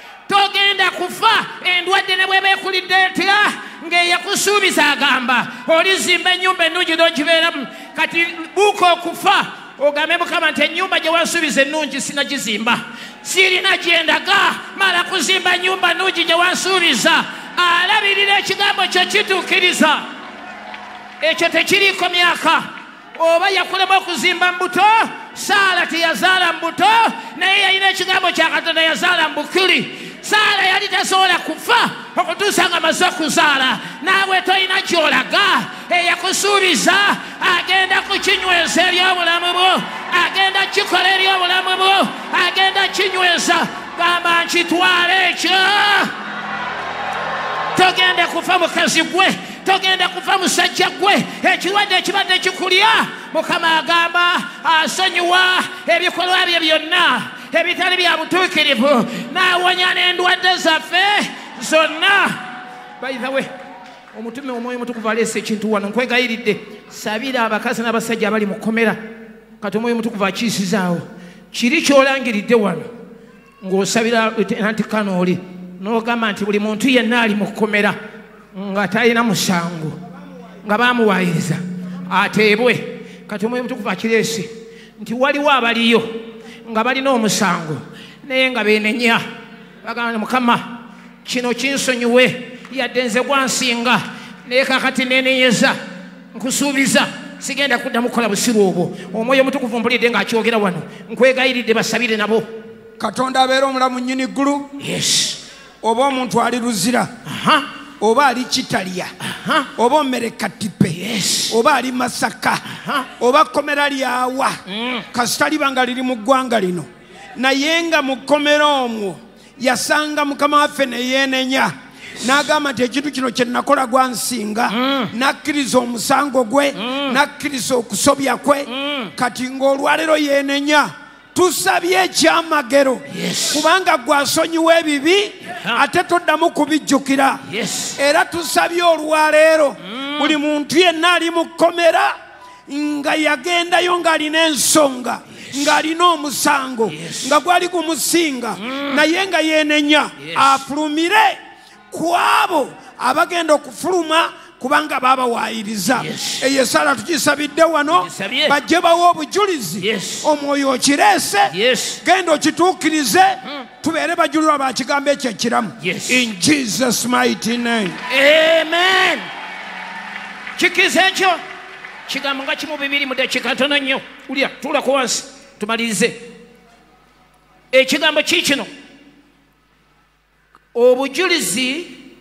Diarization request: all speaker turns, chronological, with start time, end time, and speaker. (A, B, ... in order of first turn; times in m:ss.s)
0:00.3-0:20.1 A
0:21.2-0:46.1 A
0:47.7-1:02.4 A
1:03.0-1:03.5 A
1:04.1-1:09.0 A
1:09.6-1:12.9 A
1:13.6-1:18.0 A
1:18.5-1:20.0 A
1:20.6-1:29.2 A
1:29.8-1:35.8 A
1:36.3-1:42.5 A
1:43.0-1:44.7 B
1:44.8-1:45.4 A
1:45.8-1:47.1 B
1:47.3-1:47.7 A
1:48.0-1:49.1 B
1:49.2-1:49.7 A
1:49.8-1:52.6 B
1:50.9-1:51.6 A
1:52.7-1:53.1 A
1:53.2-1:54.6 B
1:54.7-1:55.1 A
1:55.1-2:17.4 B
2:04.7-2:05.1 A
2:06.8-2:07.2 A
2:08.7-2:09.1 A
2:13.1-2:13.7 A
2:15.5-2:15.8 A
2:17.4-2:18.0 A
2:18.0-2:22.2 B
2:19.8-2:20.4 A
2:22.7-2:31.4 B
2:25.5-2:25.8 A
2:26.9-2:27.4 A
2:28.6-2:29.0 A
2:30.2-2:30.6 A
2:31.9-2:48.0 B
2:35.9-2:36.5 A
2:38.0-2:38.6 A
2:39.8-2:40.3 A
2:41.5-2:42.0 A
2:45.8-2:46.3 A
2:48.1-2:49.3 A
2:50.6-2:51.4 A
2:52.1-2:56.3 A
2:57.7-2:58.7 A
3:00.7-3:02.0 A